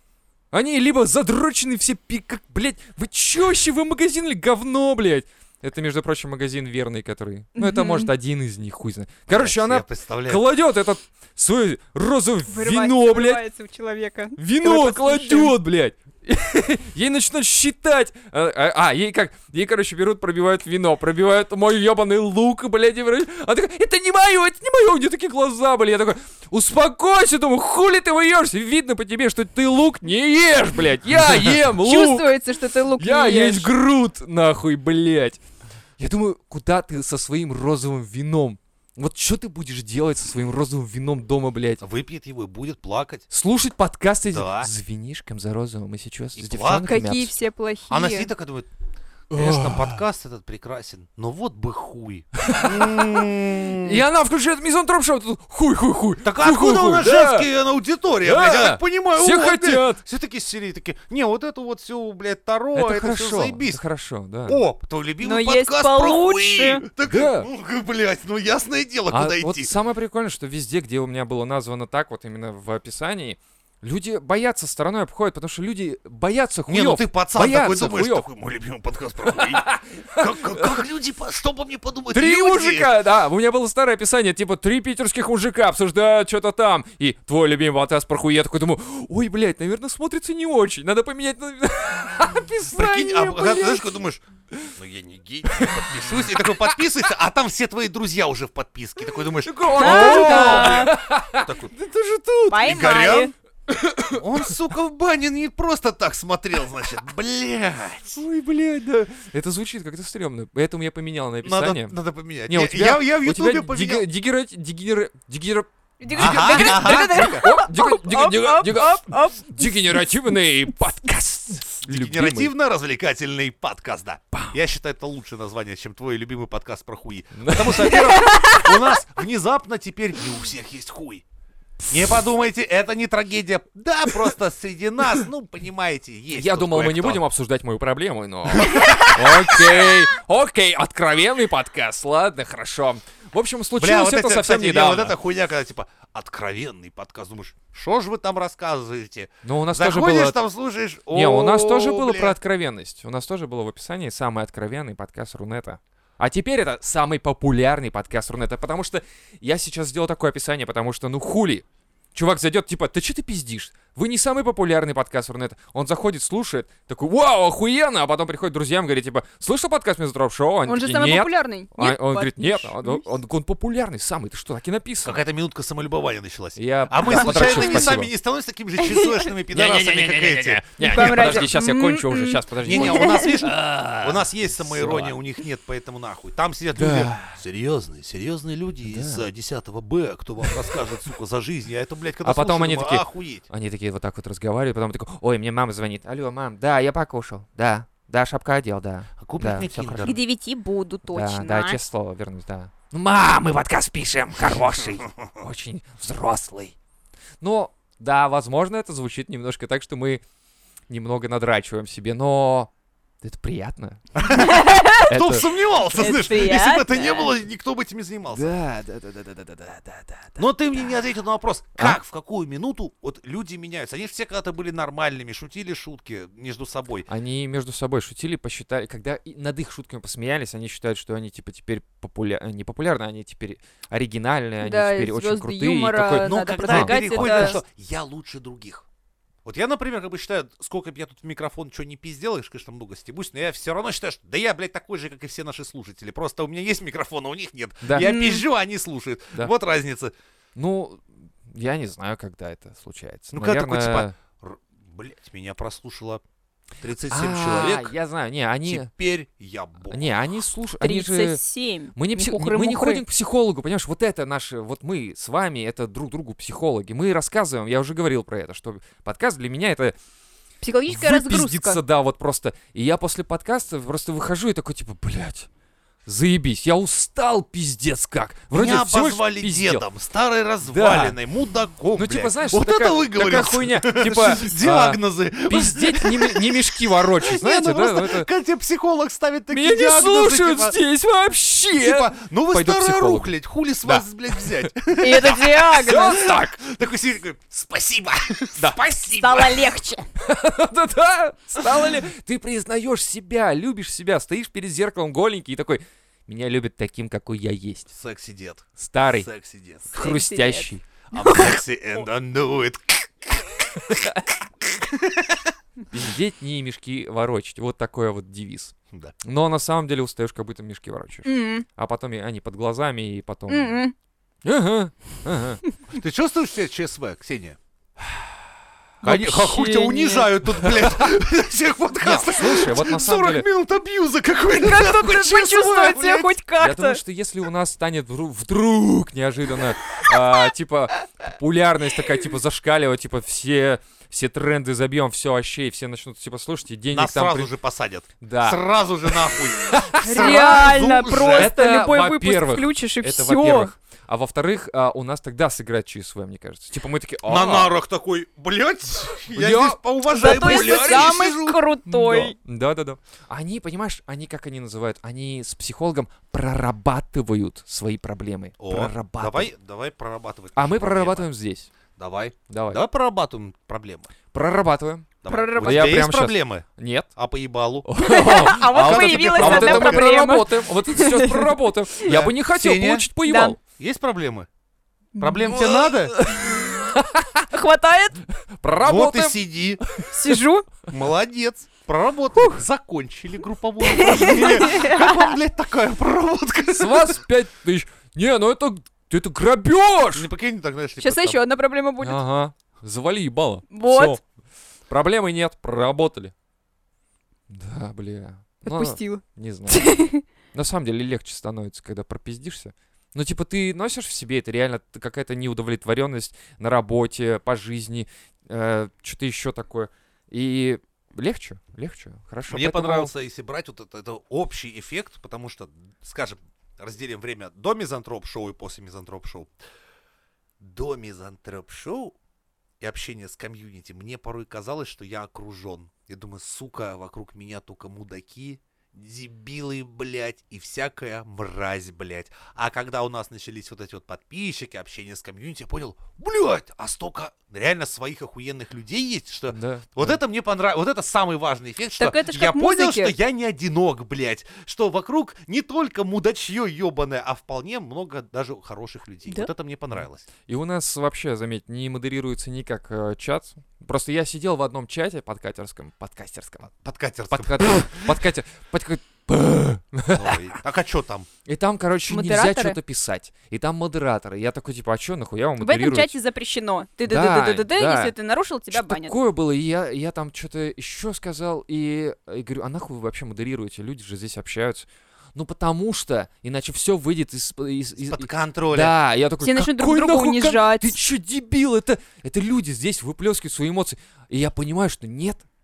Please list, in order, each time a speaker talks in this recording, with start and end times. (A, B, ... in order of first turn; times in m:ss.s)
0:00.5-0:13.4 A
0:07.6-0:08.1 B
0:09.3-0:10.5 C
0:12.5-0:15.6 B
0:14.4-0:32.3 A
0:31.8-0:33.7 B
0:33.0-0:35.4 A
0:36.0-0:41.8 A
0:41.8-0:43.3 C
0:43.3-0:47.3 A
0:44.3-0:44.7 C
0:46.4-0:47.0 C
0:46.8-0:48.3 B
0:47.9-0:48.7 C
0:49.3-0:50.0 A
0:49.3-0:54.0 C
0:52.4-0:57.5 A
0:56.2-1:03.8 C
0:58.2-1:00.0 A
1:02.8-1:04.6 A
1:04.5-1:09.7 C
1:05.2-1:06.9 B
1:07.0-1:07.5 A
1:09.1-1:18.3 A
1:16.7-1:23.0 C
1:19.2-1:20.8 A
1:22.1-1:34.0 A
1:32.7-1:34.2 C
1:34.8-1:41.8 C
1:35.5-1:36.9 A
1:39.4-1:42.7 A
1:39.8-1:40.9 B
1:42.5-1:43.3 C
1:42.5-1:43.3 B
1:43.7-1:44.5 A
1:44.1-1:48.2 C
1:48.2-1:52.0 A
1:51.4-1:54.1 C
1:52.5-2:02.5 A
1:56.0-2:00.1 B
1:56.2-1:57.5 C
2:01.7-2:11.2 C
2:07.4-2:08.5 A
2:08.2-2:08.6 B
2:11.9-2:17.2 C
2:16.3-2:25.2 A
2:18.5-2:19.7 C
2:23.8-2:32.4 C
2:29.4-2:30.4 A
2:31.1-2:55.2 A
2:50.7-2:53.0 B
2:55.0-3:01.5 C
2:56.6-2:58.1 A
2:57.1-2:57.9 B
2:58.8-2:59.3 B
2:59.5-3:05.2 A
3:00.8-3:03.4 B
3:02.6-3:13.5 C
3:06.8-3:07.4 A
3:08.8-3:09.3 A
3:10.4-3:10.8 A
3:12.2-3:20.2 A
3:19.2-3:20.2 C
3:20.0-3:21.8 B
3:21.1-3:26.8 A
3:27.4-3:30.2 A
3:30.9-3:32.7 A
3:33.2-3:35.5 A
3:34.2-3:38.5 C
3:34.4-3:35.1 B
3:35.9-3:37.3 B
3:38.3-3:40.8 A
3:40.4-3:47.1 C
3:47.1-3:57.6 A
3:54.6-3:57.6 B
3:56.2-3:58.9 C
3:59.4-4:10.1 C
4:07.8-4:08.1 A
4:08.0-4:08.4 B
4:10.6-4:14.1 A
4:13.3-4:16.2 C
4:16.8-4:17.9 C
4:17.1-4:18.9 A
4:18.6-4:20.2 C
4:19.9-4:21.4 A
4:20.8-4:23.0 B
4:21.9-4:30.0 A
4:30.6-4:31.8 B
4:30.9-4:35.5 A
4:36.1-4:39.8 A
4:38.5-4:50.8 C
4:40.7-4:41.2 A
4:41.9-4:48.3 A
4:49.5-4:54.7 A
4:51.8-4:59.8 C
4:55.0-4:56.2 B
4:55.7-4:56.6 A
4:59.1-5:00.0 B
5:00.2-5:07.9 A
5:07.9-5:10.0 C
5:08.8-5:09.3 A
5:09.9-5:10.8 A
5:10.0-5:10.7 B
5:11.1-5:14.1 C
5:11.2-5:11.5 B
5:13.9-5:14.2 A
5:14.7-5:15.5 C
5:15.9-5:23.8 A
5:21.2-5:21.7 B
5:23.5-5:23.9 B
5:24.4-5:25.6 A
5:25.9-5:27.6 C
5:28.0-5:28.3 A
5:29.0-5:29.4 A
5:29.0-5:36.4 C
5:29.2-5:30.3 B
5:30.5-5:31.1 A
5:32.0-5:33.5 A
5:34.6-5:37.0 B
5:36.6-5:47.5 A
5:46.9-5:51.5 C
5:48.2-5:50.4 A
5:50.0-5:53.7 B
5:51.3-5:57.8 A
5:57.3-6:01.6 C
5:59.3-6:01.1 A
6:00.1-6:02.4 B
6:01.9-6:09.5 A
6:08.6-6:11.3 C
6:10.6-6:11.7 A
6:12.0-6:14.1 C
6:12.5-6:12.8 A
6:14.3-6:17.1 A
6:15.2-6:17.9 C
6:15.3-6:16.0 B
6:17.8-6:23.6 A
6:18.0-6:22.1 B
6:18.6-6:20.1 C
6:22.0-6:23.1 C
6:23.2-6:23.6 B
6:23.8-6:24.5 C
6:25.2-6:25.8 B
6:25.2-6:26.2 C
6:25.5-6:27.5 A
6:27.5-6:28.2 B
6:28.3-6:30.3 A
6:28.8-6:29.8 C
6:30.1-6:30.7 B
6:30.9-6:37.2 C
6:33.8-6:35.4 B
6:36.8-6:40.3 A
6:40.1-6:41.4 C
6:41.0-6:42.2 B
6:42.0-6:44.2 A
6:43.7-6:44.2 B
6:44.9-6:46.3 A
6:47.5-6:50.0 A
6:48.7-6:50.2 B
6:50.5-7:03.1 A
7:02.5-7:09.5 C
7:10.6-7:12.2 C
7:12.8-7:40.3 C
7:29.5-7:30.2 A
7:32.0-7:33.2 B
7:40.0-7:46.7 A
7:46.8-7:48.2 C
7:47.3-7:50.4 A
7:50.1-7:51.3 C
7:51.4-7:56.2 A
7:52.1-7:52.8 B
7:55.6-7:59.2 B
7:57.1-7:58.1 A
7:58.7-8:15.5 A
8:08.0-8:09.0 C
8:09.4-8:11.0 B